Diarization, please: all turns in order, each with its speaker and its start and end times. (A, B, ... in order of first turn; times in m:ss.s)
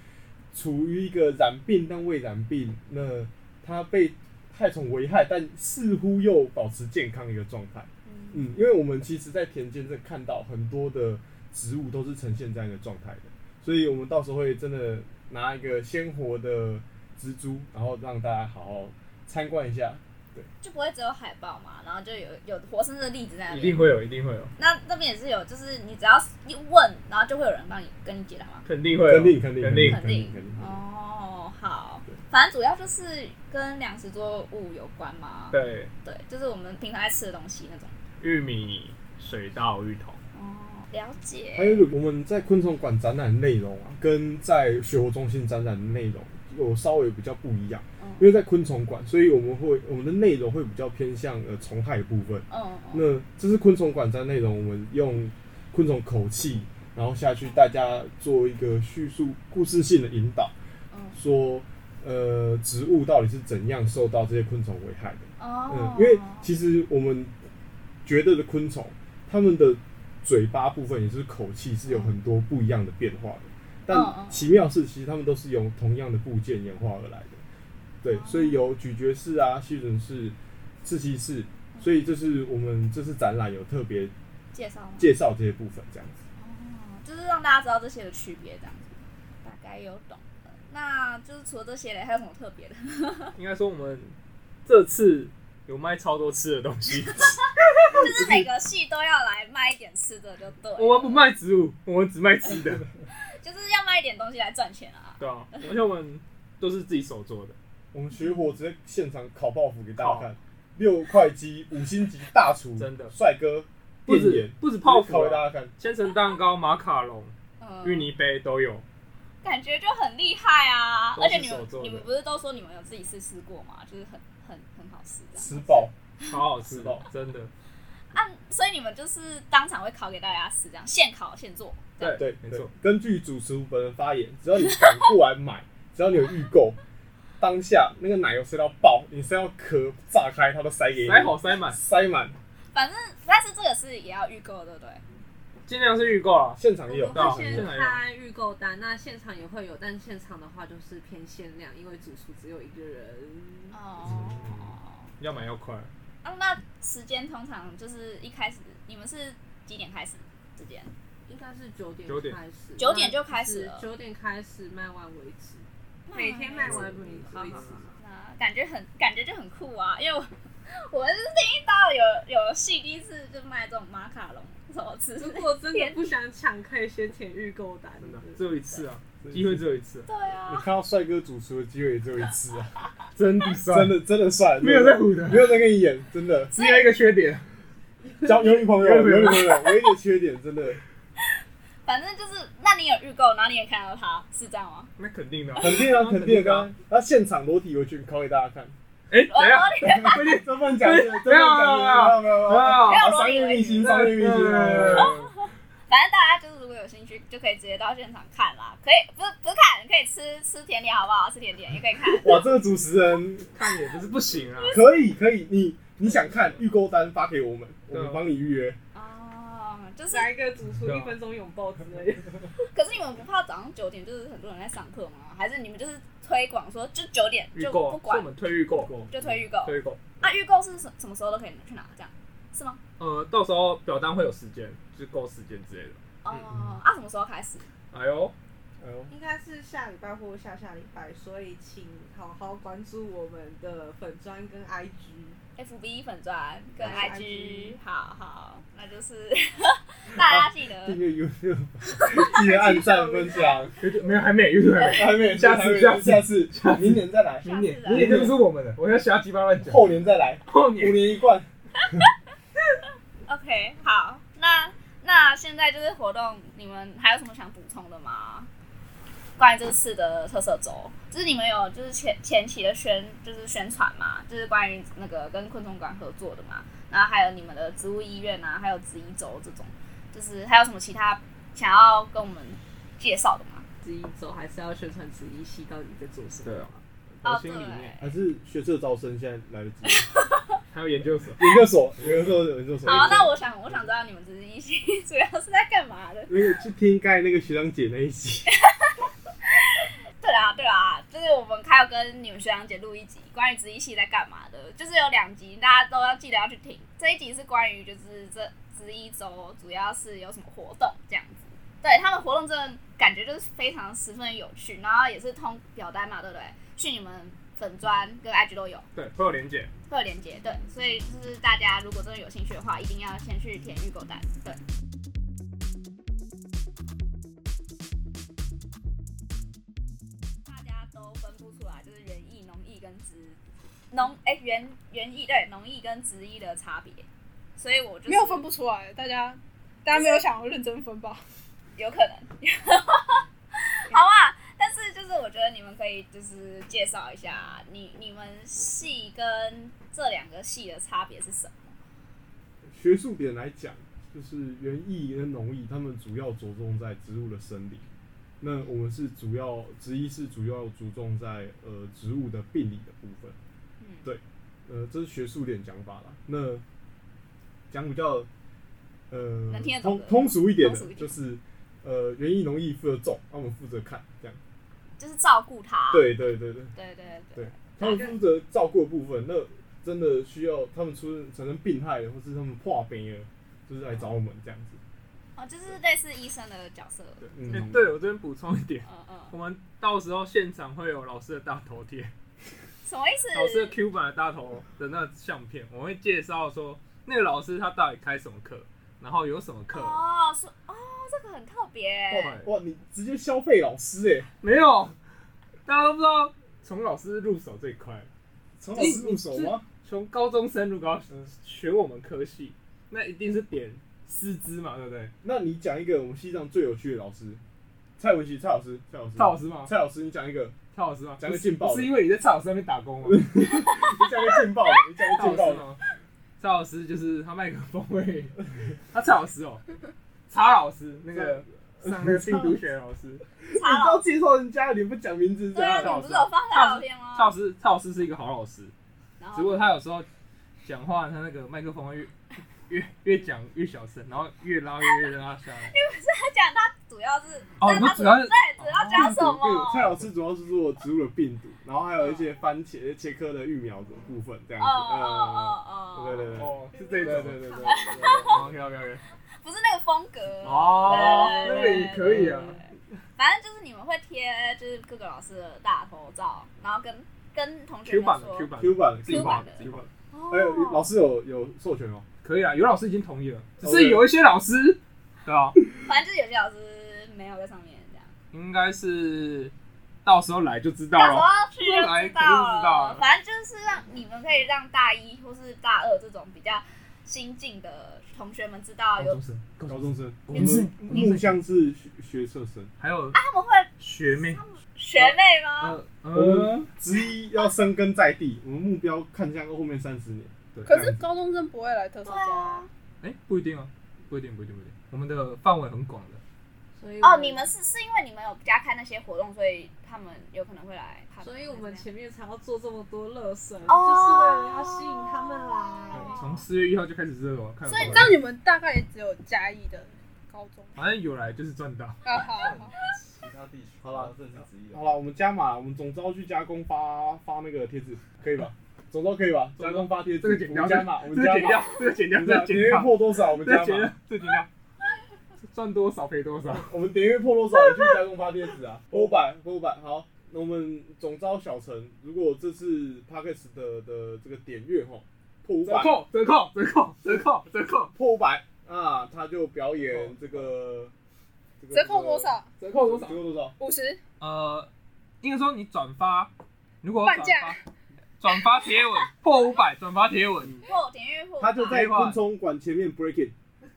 0:00.5-0:20.5 A
0:08.1-0:08.5 B
0:20.6-0:23.9 B
0:23.5-0:24.5 C
0:24.6-0:28.7 B
0:28.6-0:30.0 C
0:29.0-0:30.8 A
0:29.8-0:38.0 B
0:35.5-0:35.9 C
0:38.2-0:40.2 C
0:40.3-0:41.9 B
0:41.6-1:00.5 A
0:48.0-0:48.3 B
0:52.5-0:53.1 B
1:00.9-1:01.2 B
1:01.1-1:07.3 A
1:05.4-1:06.5 B
1:08.0-1:17.4 A
1:11.9-1:12.1 B
1:13.9-1:14.5 B
1:18.0-1:24.1 A
1:18.1-1:18.6 B
1:24.5-1:25.1 B
1:25.0-1:26.2 A
1:26.4-1:33.4 B
1:33.4-1:34.1 C
1:34.7-1:37.7 C
1:37.8-1:41.2 B
1:38.2-1:38.4 A
1:40.8-1:42.9 C
1:43.3-1:45.7 B
1:45.2-1:47.6 C
1:47.9-1:55.7 A
1:50.0-1:50.3 C
1:52.8-1:53.1 C
1:54.1-1:58.8 C
1:57.6-1:58.1 B
1:59.4-2:06.4 B
2:01.2-2:02.1 C
2:05.4-2:05.9 A
2:06.3-2:07.5 C
2:06.6-2:07.0 A
2:08.1-2:12.2 B
2:12.0-2:12.7 C
2:12.2-2:16.8 A
2:17.4-2:22.4 A
2:21.0-2:21.8 C
2:22.7-2:25.0 B
2:25.7-2:26.6 C
2:26.6-2:27.7 A
2:26.9-2:33.8 D
2:27.1-2:28.0 C
2:33.7-2:35.1 B
2:34.1-2:34.6 C
2:35.2-2:35.9 C
2:36.2-2:40.9 B
2:41.3-2:48.0 D
2:42.1-2:42.4 C
2:42.8-2:43.9 B
2:46.1-2:56.1 B
2:46.7-2:47.6 C
2:55.2-2:58.8 D
2:58.0-3:00.1 C
2:59.2-2:59.6 A
3:00.1-3:00.7 B
3:00.4-3:02.8 A
3:03.2-3:04.0 C
3:03.7-3:06.5 A
3:04.6-3:05.6 C
3:06.5-3:06.9 B
3:06.5-3:07.5 C
3:08.2-3:10.8 A
3:08.6-3:09.8 C
3:11.9-3:14.9 B
3:15.0-3:16.7 C
3:15.6-3:18.8 A
3:19.1-3:23.1 C
3:19.3-3:20.4 B
3:20.0-3:25.1 A
3:22.8-3:23.9 B
3:23.8-3:25.3 C
3:24.9-3:32.4 B
3:32.1-3:33.5 A
3:33.6-3:34.8 C
3:34.6-3:35.0 B
3:34.7-3:38.8 A
3:37.9-3:38.2 C
3:38.9-3:40.3 B
3:40.1-3:42.5 D
3:40.8-3:41.2 C
3:42.7-3:48.3 B
3:47.5-3:49.0 C
3:48.8-3:49.4 A
3:49.1-3:52.8 B
3:49.6-3:50.0 C
3:53.0-3:56.0 C
3:56.2-3:57.7 B
3:56.3-3:56.7 A
3:57.9-3:58.4 C
3:58.8-3:59.1 A
3:59.1-4:05.4 D
4:05.6-4:11.0 B
4:06.8-4:07.8 D
4:10.2-4:13.8 A
4:11.9-4:12.6 B
4:12.3-4:13.7 D
4:13.8-4:19.9 C
4:14.8-4:18.4 A
4:17.4-4:18.3 B
4:19.6-4:21.5 A
4:20.5-4:21.1 C
4:23.3-4:28.5 B
4:29.4-4:43.7 B
4:43.8-4:46.8 D
4:46.4-4:47.9 C
4:47.2-4:48.1 B
4:48.0-4:50.0 A
4:49.9-4:50.6 B
4:50.7-4:52.3 C
4:51.4-4:53.4 A
4:52.8-4:56.5 B
4:56.3-4:58.5 A
4:58.5-4:58.9 B
4:59.6-5:18.9 B
5:19.0-5:19.7 C
5:19.9-5:24.6 B
5:30.5-5:33.4 B
5:33.9-5:37.0 B
5:37.6-5:38.5 B
5:38.0-5:41.2 E
5:40.0-5:40.2 B
5:41.8-5:51.8 B
5:52.7-5:57.9 A
5:58.4-6:03.4 A
6:03.8-6:04.1 B
6:04.0-6:06.6 A
6:07.7-6:08.3 A
6:09.1-6:14.4 A
6:09.5-6:11.1 B
6:15.0-6:16.1 B
6:15.9-6:16.8 A
6:16.8-6:18.2 B
6:17.4-6:24.8 A
6:25.4-6:27.7 B
6:27.2-6:28.0 A
6:27.5-6:32.1 C
6:28.8-6:29.3 B
6:32.8-6:33.8 B
6:33.3-6:40.0 C
6:39.7-6:42.4 B
6:42.1-6:44.3 A
6:42.2-6:42.5 C
6:44.4-6:45.0 C
6:45.7-6:48.1 C
6:48.6-6:49.6 A
6:48.8-6:55.1 C
6:55.2-6:57.4 A
6:58.0-7:00.6 A
6:59.2-6:59.7 C
7:00.7-7:03.2 C
7:01.2-7:02.0 A
7:03.0-7:05.7 A
7:05.2-7:05.8 C
7:06.4-7:08.4 C
7:08.9-7:09.6 C
7:10.3-7:13.2 C
7:11.1-7:12.6 A
7:13.4-7:16.1 A
7:13.5-7:14.0 B
7:15.5-7:17.3 B
7:15.8-7:18.7 C
7:19.2-7:19.6 B
7:19.3-7:20.1 C
7:20.6-7:22.1 C
7:22.7-7:25.8 C
7:25.7-7:29.9 B
7:27.6-7:29.2 C
7:28.9-7:38.5 A
7:32.0-7:32.4 B
7:34.6-7:36.4 B
7:36.4-7:39.0 C
7:37.0-7:38.4 B
7:39.4-7:48.5 B
7:40.4-7:42.6 C
7:40.9-7:42.5 A
7:47.8-7:49.8 C
7:48.6-7:52.0 A
7:49.0-7:50.9 B
7:52.2-7:55.6 C
7:53.6-7:54.1 A
7:55.8-7:58.1 B
7:58.3-7:59.5 C
8:00.0-8:03.0 C
8:00.9-8:09.2 B
8:09.0-8:11.4 C
8:09.7-8:12.7 A
8:10.3-8:10.6 B
8:12.8-8:13.2 C
8:13.2-8:15.8 B
8:13.8-8:14.4 C
8:15.0-8:16.7 C
8:16.1-8:21.0 A
8:20.5-8:20.8 C
8:20.7-8:22.7 E
8:22.0-8:22.7 B
8:23.0-8:26.2 C
8:26.8-8:27.5 D
8:27.0-8:31.9 B
8:31.2-8:36.2 D
8:33.7-8:36.4 B
8:35.9-8:38.2 C
8:37.7-8:38.0 B
8:37.7-8:40.8 E
8:40.8-8:42.0 C
8:42.0-8:42.8 E
8:42.3-8:44.9 F
8:43.8-8:53.9 A
8:49.6-8:54.5 C
8:55.5-8:56.7 C
8:56.5-9:06.0 A
9:05.6-9:07.9 C
9:08.0-9:10.9 A
9:09.8-9:10.5 C
9:11.6-9:13.5 A
9:11.7-9:12.5 E
9:12.6-9:13.2 C
9:13.6-9:14.0 E
9:14.2-9:14.7 C
9:15.2-9:16.3 C
9:16.8-9:17.6 C
9:17.0-9:17.6 E
9:18.2-9:20.6 C
9:20.6-9:21.8 B
9:21.4-9:23.4 A
9:21.7-9:22.2 C